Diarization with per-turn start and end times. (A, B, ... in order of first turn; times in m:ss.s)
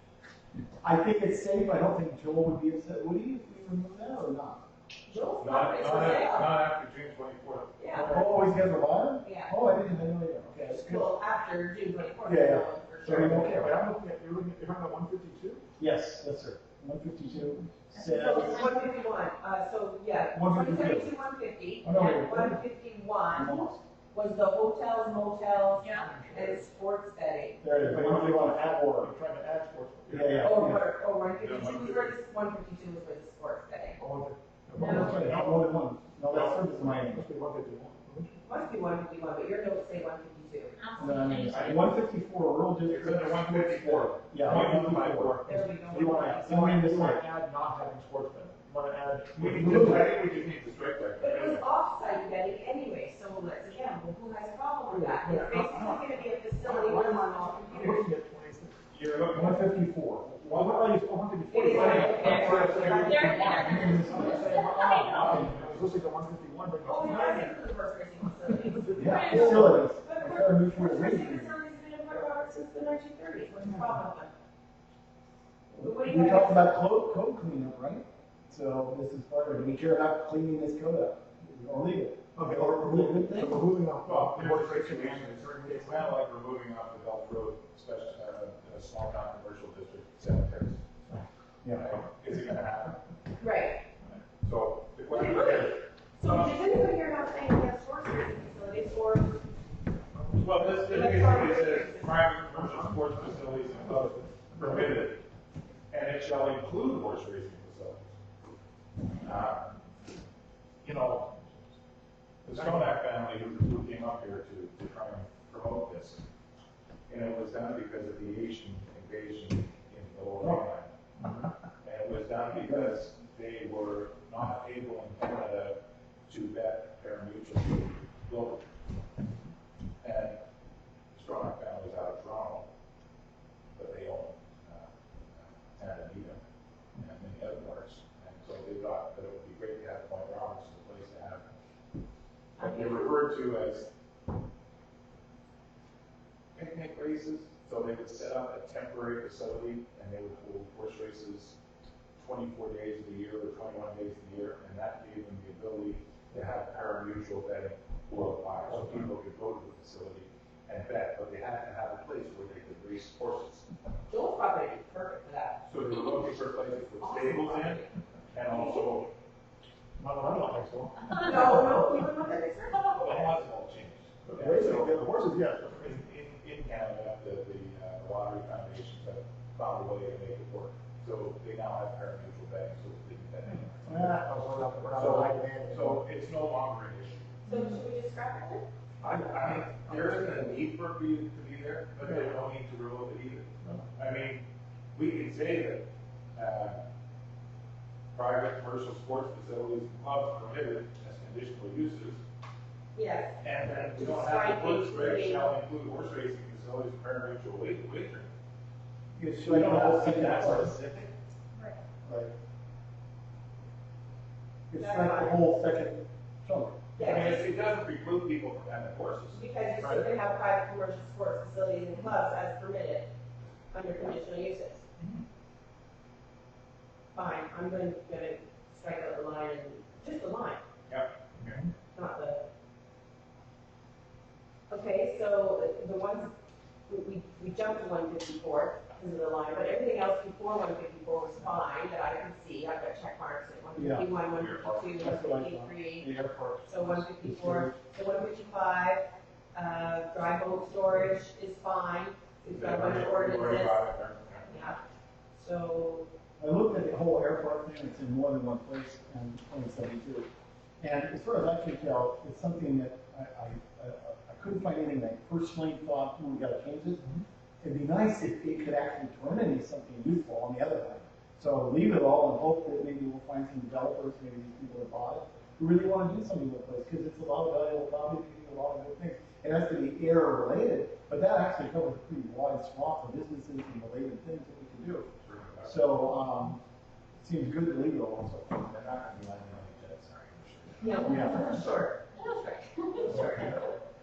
0:00.8-0:04.6 A
0:05.1-0:06.5 B
0:05.4-0:08.2 C
0:07.8-0:08.1 B
0:08.0-0:08.2 D
0:08.0-0:11.1 A
0:09.2-0:09.5 B
0:10.7-0:13.5 B
0:12.2-0:13.8 A
0:13.1-0:15.6 D
0:15.8-0:18.7 A
0:18.0-0:18.5 E
0:18.0-0:27.6 B
0:20.3-0:21.1 A
0:21.8-0:22.6 A
0:23.3-0:23.8 A
0:25.8-0:26.1 E
0:25.8-0:26.6 D
0:27.6-0:29.1 A
0:27.7-0:30.8 D
0:30.1-0:30.8 A
0:30.4-0:34.0 B
0:31.3-0:32.1 C
0:34.0-0:35.5 D
0:34.8-0:37.2 A
0:34.8-0:35.2 B
0:35.1-0:35.6 C
0:36.4-0:38.4 D
0:38.4-0:40.8 B
0:40.8-0:41.7 E
0:41.0-0:45.4 A
0:41.5-0:41.9 C
0:42.8-0:45.6 C
0:45.4-0:46.6 B
0:45.9-0:50.0 D
0:46.1-0:47.2 A
0:49.3-0:51.6 C
0:49.6-0:50.0 A
0:51.2-0:58.0 B
0:55.2-0:55.8 D
0:55.5-0:56.0 C
0:56.6-0:58.8 D
0:58.9-0:59.7 C
0:59.3-1:00.5 A
1:00.2-1:00.9 C
1:00.5-1:07.6 D
1:01.5-1:04.3 B
1:01.7-1:05.6 A
1:02.9-1:05.4 E
1:05.2-1:05.7 C
1:06.8-1:14.3 B
1:08.6-1:09.8 D
1:09.0-1:11.5 A
1:15.8-1:23.6 A
1:15.8-1:16.7 B
1:22.3-1:26.2 D
1:24.0-1:30.8 C
1:31.6-1:31.9 A
1:31.7-1:33.0 C
1:33.4-1:33.8 B
1:34.4-1:36.6 C
1:35.1-1:39.4 B
1:40.1-1:41.1 D
1:40.3-1:45.2 C
1:40.8-1:42.1 B
1:42.2-1:43.0 D
1:43.8-1:45.1 D
1:45.9-1:48.2 C
1:49.2-1:49.8 C
1:50.8-1:51.5 C
1:52.4-1:56.2 C
1:57.1-2:00.9 C
2:01.8-2:08.6 C
2:10.0-2:10.4 C
2:11.1-2:12.7 C
2:13.7-2:16.4 C
2:17.0-2:21.4 C
2:22.6-2:23.2 B
2:22.6-2:23.9 C
2:26.6-2:31.6 C
2:32.2-2:43.7 C
2:44.1-2:45.6 B
2:45.6-2:49.1 C
2:47.0-2:47.9 B
2:48.4-2:49.1 B
2:50.0-2:51.6 D
2:51.1-2:53.3 B
2:51.4-2:51.7 A
2:53.0-2:55.0 C
2:54.3-2:55.9 D
2:54.4-2:54.9 A
2:55.7-3:04.1 C
3:03.9-3:04.2 A
3:03.9-3:06.0 D
3:05.0-3:07.4 C
3:05.1-3:05.4 A
3:07.4-3:08.6 B
3:09.0-3:16.8 C
3:18.1-3:22.2 C
3:22.9-3:23.4 B
3:23.4-3:28.3 C
3:23.9-3:25.5 B
3:29.2-3:30.8 A
3:29.4-3:31.1 C
3:32.0-3:32.3 A
3:34.7-3:36.9 A
3:34.8-3:35.4 B
3:37.0-3:37.4 B
3:37.0-3:40.2 C
3:39.3-3:43.1 B
3:43.7-3:44.8 B
3:47.1-3:50.6 B
3:50.9-3:51.6 C
3:51.9-3:52.4 B
3:54.7-3:56.3 B
3:56.9-4:06.1 B
4:03.7-4:04.1 A
4:04.2-4:05.0 C
4:05.0-4:07.7 A
4:06.6-4:13.9 B
4:12.5-4:14.6 C
4:14.4-4:14.8 B
4:15.3-4:16.1 B
4:16.4-4:20.3 A
4:20.8-4:27.0 A
4:27.6-4:45.1 A
4:45.2-4:45.9 C
4:45.6-4:46.6 A
4:47.2-4:48.5 A
4:48.5-4:51.4 C
4:50.8-4:53.7 B
4:51.0-4:51.4 A